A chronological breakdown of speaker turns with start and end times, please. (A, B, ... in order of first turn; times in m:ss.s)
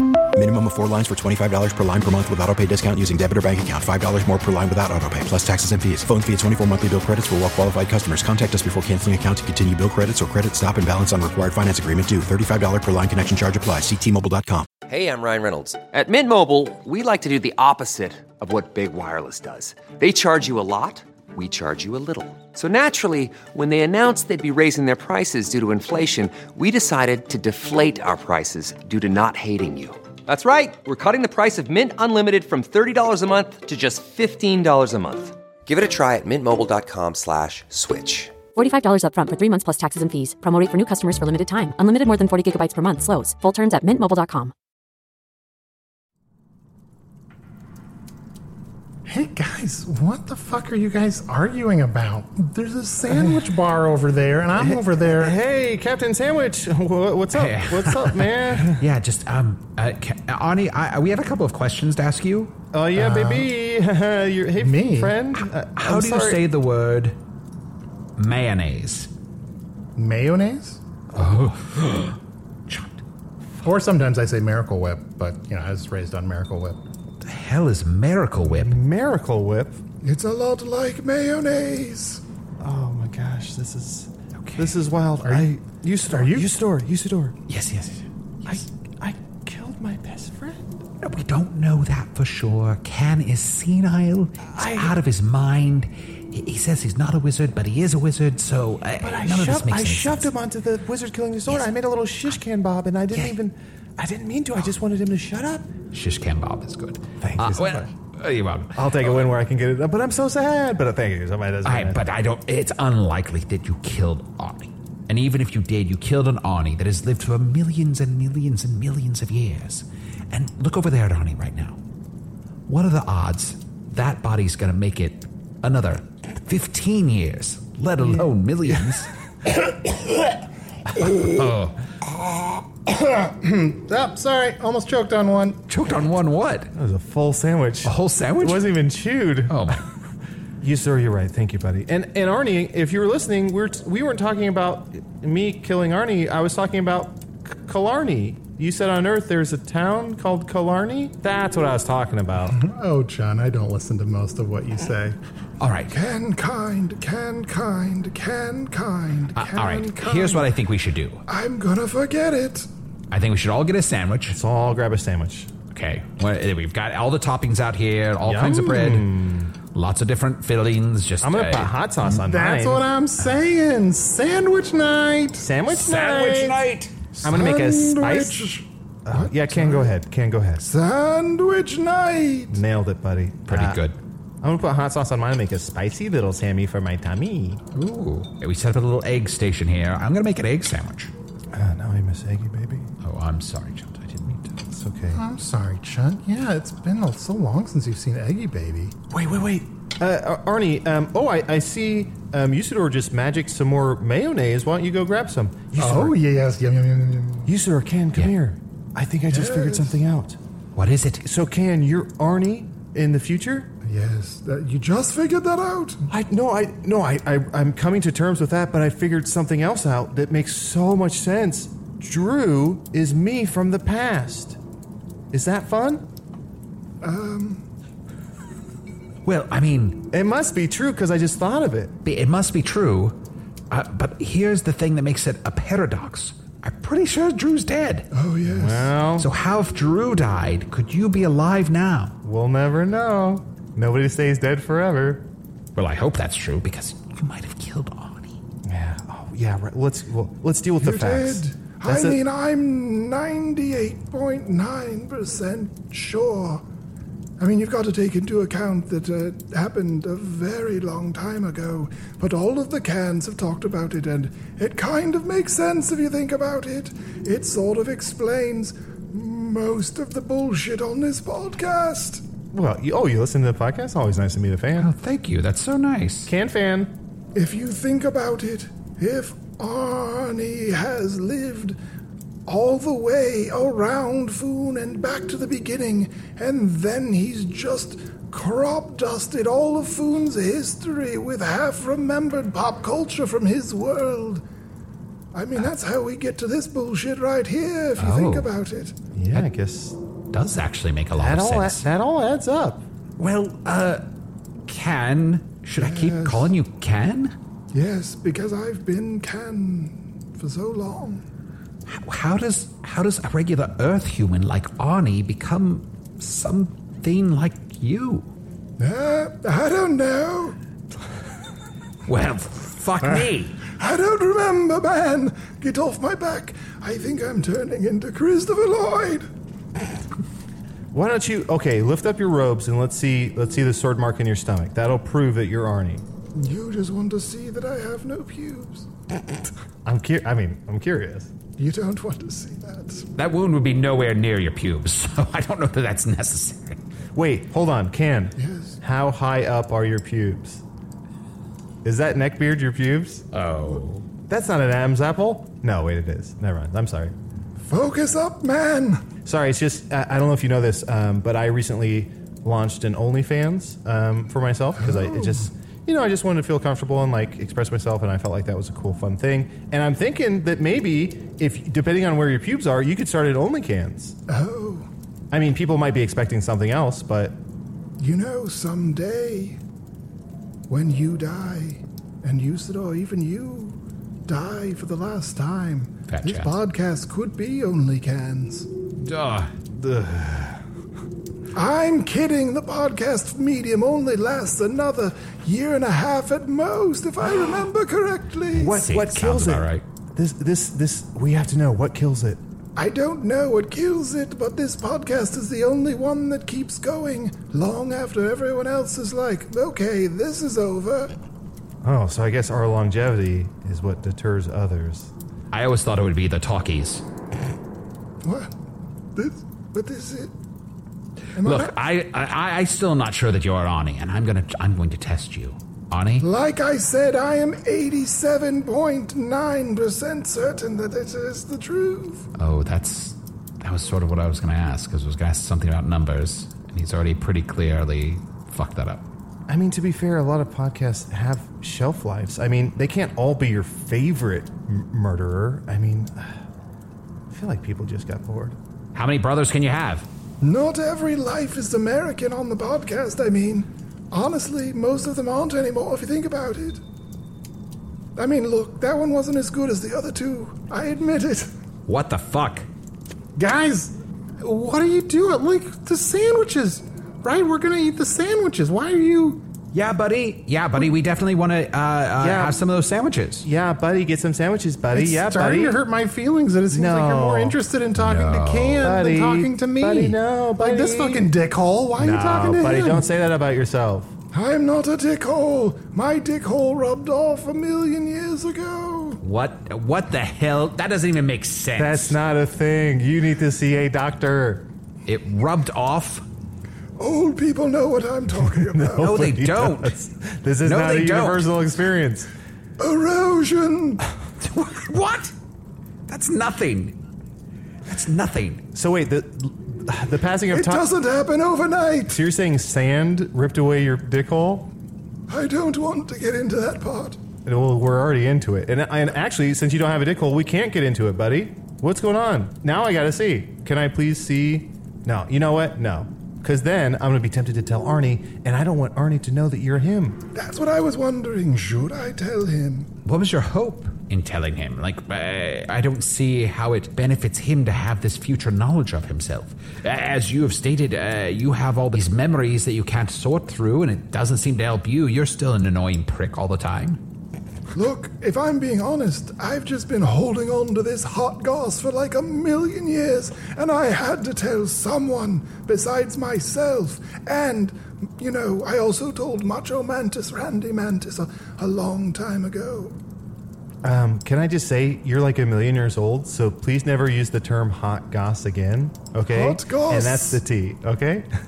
0:00.3-0:14.7 A
0:14.8-0:38.3 B
0:38.5-0:44.5 C
0:49.0-0:55.3 D
0:53.1-0:53.4 E
0:54.6-0:58.8 E
0:57.3-1:02.5 F
1:02.7-1:06.4 E
1:02.9-1:03.5 D
1:04.6-1:05.2 D
1:05.8-1:07.2 F
1:08.2-1:09.1 F
1:10.0-1:10.8 D
1:11.1-1:12.2 F
1:12.7-1:13.0 F
1:13.6-1:16.8 D
1:17.2-1:18.8 F
1:18.4-1:19.8 E
1:20.0-1:22.2 G
1:22.6-1:27.4 E
1:24.4-1:24.8 F
1:25.2-1:26.5 D
1:27.5-1:28.6 F
1:28.4-1:30.8 E
1:31.0-1:40.3 F
1:34.5-1:34.9 E
1:39.0-1:45.7 E
1:45.9-1:49.3 F
1:47.2-1:47.9 E
1:48.7-1:52.0 E
1:51.6-2:01.8 F
2:02.7-2:09.1 F
2:08.0-2:08.3 E
2:11.0-2:11.8 F
2:13.2-2:15.6 D
2:15.7-2:16.7 F
2:16.7-2:19.8 E
2:17.8-2:18.7 F
2:19.5-2:19.8 F
2:20.6-2:32.6 E
2:32.5-2:35.2 D
2:35.6-2:35.9 F
2:35.9-2:40.5 G
2:39.3-2:41.2 F
2:41.3-2:42.7 G
2:43.1-2:44.4 F
2:44.3-2:45.5 E
2:45.7-2:49.1 F
2:48.2-2:49.5 E
2:49.7-2:51.7 F
2:51.2-2:52.9 E
2:52.0-2:55.5 D
2:55.4-2:56.6 E
2:55.7-2:56.9 F
2:57.2-2:59.9 G
2:57.2-2:58.5 E
2:59.0-3:00.6 E
3:00.6-3:02.6 G
3:02.5-3:03.8 E
3:03.5-3:04.0 F
3:04.4-3:07.6 E
3:07.7-3:11.1 F
3:11.5-3:12.9 E
3:13.0-3:14.5 F
3:14.7-3:15.2 E
3:15.1-3:18.9 D
3:19.1-3:26.2 E
3:25.8-3:27.5 D
3:27.4-3:30.4 E
3:29.3-3:30.0 G
3:30.7-3:31.2 F
3:31.2-3:33.7 E
3:33.8-3:36.0 G
3:36.1-3:44.6 E
3:45.3-3:46.0 E
3:47.0-3:47.6 G
3:49.2-3:50.0 F
3:50.1-3:52.0 E
3:52.0-3:53.2 F
3:53.7-3:58.1 F
3:58.1-3:58.9 G
3:58.5-3:59.3 E
3:59.2-4:02.1 F
4:02.2-4:05.2 E
4:05.8-4:08.4 F
4:08.6-4:12.2 E
4:10.8-4:16.6 G
4:17.4-4:32.2 G
4:32.5-4:34.9 E
4:34.8-4:36.3 F
4:36.2-4:36.9 E
4:37.3-4:41.8 G
4:42.5-4:54.4 G
4:55.3-4:59.0 G
4:58.0-4:58.5 F
4:59.1-5:00.0 E
5:00.3-5:01.8 F
5:01.1-5:02.8 E
5:03.2-5:04.0 F
5:04.7-5:07.3 F
5:05.8-5:06.5 G
5:07.7-5:11.2 G
5:11.9-5:18.3 F
5:18.8-5:20.6 G
5:22.1-5:23.6 F
5:23.7-5:29.3 G
5:30.9-5:36.0 E
5:36.3-5:38.9 G
5:39.8-5:41.3 E
5:41.6-5:43.1 G
5:43.2-5:46.8 F
5:47.1-5:50.6 E
5:48.4-5:48.8 G
5:51.8-5:53.2 E
5:53.3-5:54.0 F
5:54.3-5:57.1 E
5:57.6-5:59.0 G
5:59.2-6:14.2 E
6:04.8-6:05.4 G
6:14.3-6:14.9 G
6:15.3-6:17.4 E
6:18.0-6:19.6 G
6:20.7-6:28.7 G
6:26.1-6:26.5 F
6:29.0-6:29.5 F
6:29.8-6:30.6 E
6:31.5-6:38.8 G
6:38.5-6:42.4 E
6:38.6-6:39.8 F
6:42.8-6:51.1 G
6:51.8-6:55.1 E
6:55.5-6:57.0 F
6:58.2-6:58.5 G
6:59.1-7:00.3 G
7:01.4-7:01.8 G
7:01.4-7:06.2 F
7:06.2-7:12.3 G
7:12.4-7:19.0 F
7:19.5-7:26.4 E
7:27.3-7:28.6 E
7:28.9-7:30.1 F
7:30.4-7:36.8 G
7:38.2-7:41.5 G
7:41.9-7:42.7 F
7:43.4-7:49.4 D
7:49.7-7:53.5 F
7:52.2-7:52.6 E
7:53.4-7:55.8 E
7:54.9-8:03.0 D
7:56.7-7:57.6 E
7:57.9-7:59.0 F
7:58.8-8:01.3 E
8:02.0-8:04.1 E
8:04.3-8:09.2 G
8:09.2-8:12.2 F
8:11.8-8:14.7 E
8:15.0-8:16.2 F
8:17.0-8:19.2 G
8:18.7-8:22.3 E
8:19.0-8:20.0 F
8:20.6-8:21.5 F
8:22.8-8:24.0 G
8:24.4-8:25.3 F
8:26.1-8:26.9 F
8:27.9-8:28.6 F
8:28.7-8:30.9 E
8:30.5-8:32.2 G
8:32.1-8:34.7 E
8:35.3-8:37.2 G
8:37.4-8:50.2 E
8:50.3-8:52.9 G
8:53.0-9:07.0 F
9:07.7-9:22.9 G
9:23.8-9:31.3 E
9:29.3-9:30.4 G